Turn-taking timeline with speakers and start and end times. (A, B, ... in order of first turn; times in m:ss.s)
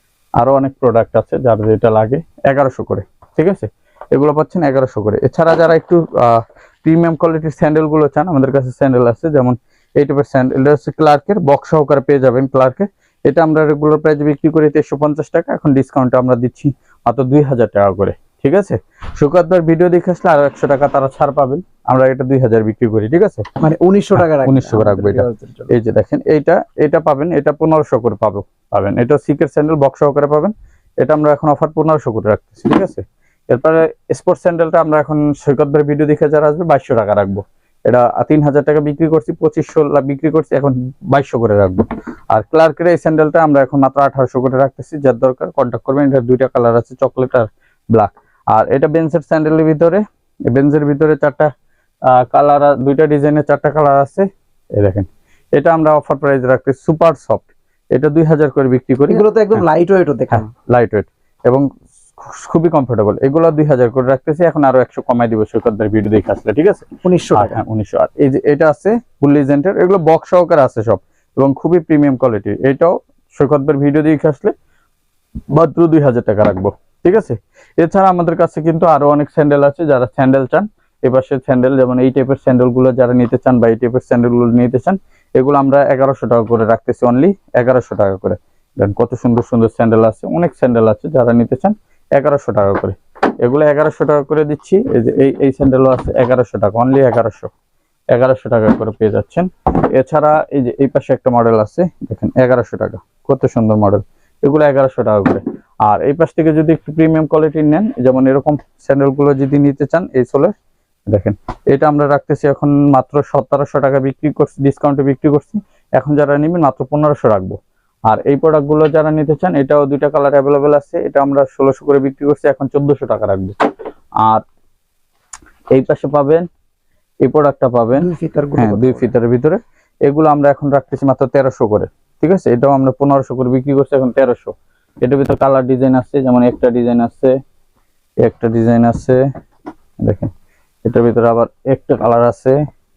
0:00.4-0:23.5 A
0:23.6-0:25.7 B
0:24.2-0:51.5 A
0:52.1-0:59.6 A
0:59.1-1:00.5 B
1:00.3-1:14.5 A
1:07.0-1:07.6 B
1:15.5-1:37.5 A
1:38.1-1:50.5 A
1:51.1-2:03.6 A
2:05.7-2:06.5 A
2:07.2-2:17.3 A
2:08.0-2:09.1 B
2:18.2-2:19.2 A
2:20.0-2:20.3 A
2:20.8-2:22.6 A